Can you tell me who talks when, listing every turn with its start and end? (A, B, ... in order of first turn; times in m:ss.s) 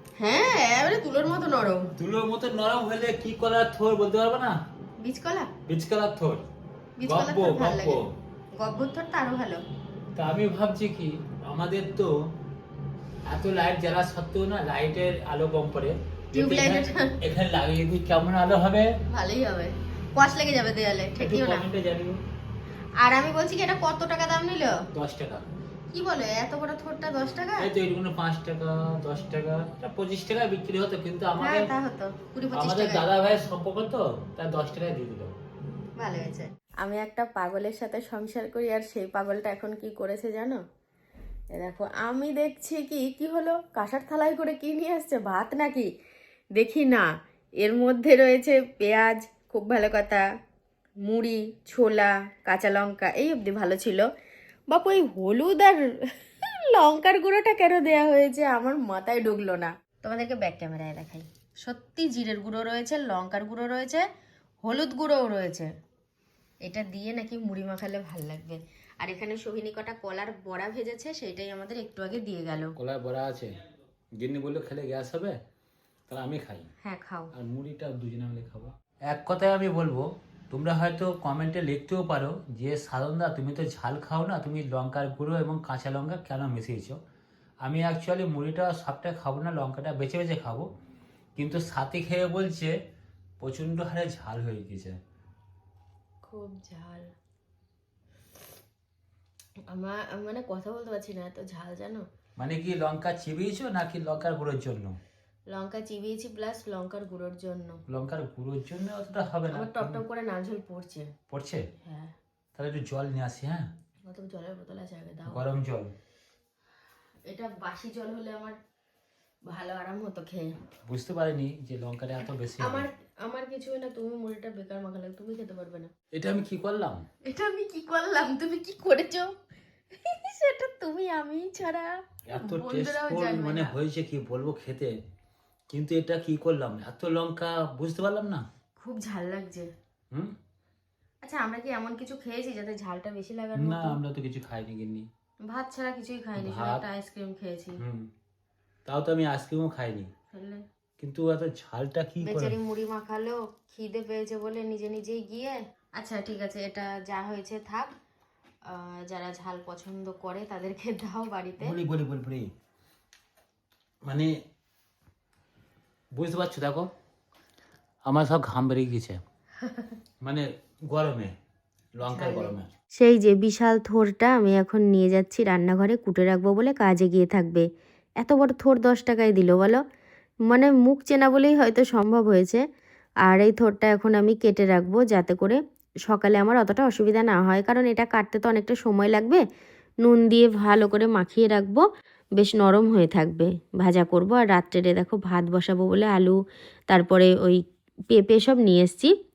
0:00.2-0:01.9 A
0:02.0-0:04.6 B
0:05.0-0:05.5 A
0:05.7-0:06.4 B
0:07.0-0:08.0 A
0:07.0-0:08.1 B
0:08.6-0:09.6 A
0:10.2-0:12.1 B
0:13.3-0:18.9 B
0:16.3-0:17.1 A
0:19.1-0:21.7 A
0:21.2-0:22.2 B
0:23.0-0:24.8 A
0:24.9-0:25.4 B
0:25.9-0:27.6 A
0:27.6-0:31.7 B
0:31.4-0:33.0 A
0:32.5-0:35.3 B
0:36.0-0:40.6 A
0:41.6-0:45.8 A
0:46.6-0:47.0 A
0:47.6-0:50.2 A
0:51.1-0:54.0 A
0:54.7-0:55.8 A
0:56.8-1:04.0 A
1:04.6-1:05.7 A
1:06.6-1:12.7 A
1:12.8-1:13.6 B
1:14.2-1:15.4 B
1:16.1-1:16.7 B
1:16.8-1:17.3 A
1:17.3-1:27.0 B
1:27.6-1:30.7 B
1:31.4-1:32.7 B
1:33.4-1:35.0 B
1:36.2-1:37.1 A
1:39.7-1:42.0 A
1:42.4-1:45.0 B
1:45.5-1:47.8 A
1:47.9-1:50.0 B
1:49.5-1:51.1 A
1:51.3-1:51.6 B
1:51.8-1:52.1 A
1:52.6-1:53.7 B
1:54.0-1:55.4 A
1:55.3-1:55.9 B
1:57.3-1:58.6 A
1:59.5-2:00.6 A
2:00.9-2:02.9 B
2:02.6-2:05.9 A
2:06.1-2:07.0 B
2:07.3-2:09.3 A
2:10.1-2:13.7 A
2:12.3-2:15.0 B
2:15.7-2:18.4 B
2:18.8-2:19.7 A
2:21.2-2:23.9 A
2:23.6-2:25.1 B
2:25.5-2:27.8 A
2:26.4-2:26.8 B
2:27.8-2:28.1 B
2:28.9-2:30.1 B
2:30.3-2:30.6 A
2:31.0-2:32.6 B
2:32.2-2:37.9 A
2:38.7-2:41.7 A
2:41.6-2:42.5 B
2:44.0-2:44.3 B
2:46.1-2:46.9 B
2:48.1-2:49.2 B
2:50.2-2:51.3 B
2:52.0-2:52.7 B
2:52.1-2:57.7 A
2:58.2-2:59.8 A
3:00.5-3:02.6 A
3:03.3-3:09.4 A
3:10.0-3:11.8 A
3:12.4-3:16.4 A
3:16.9-3:17.6 A
3:18.1-3:19.1 A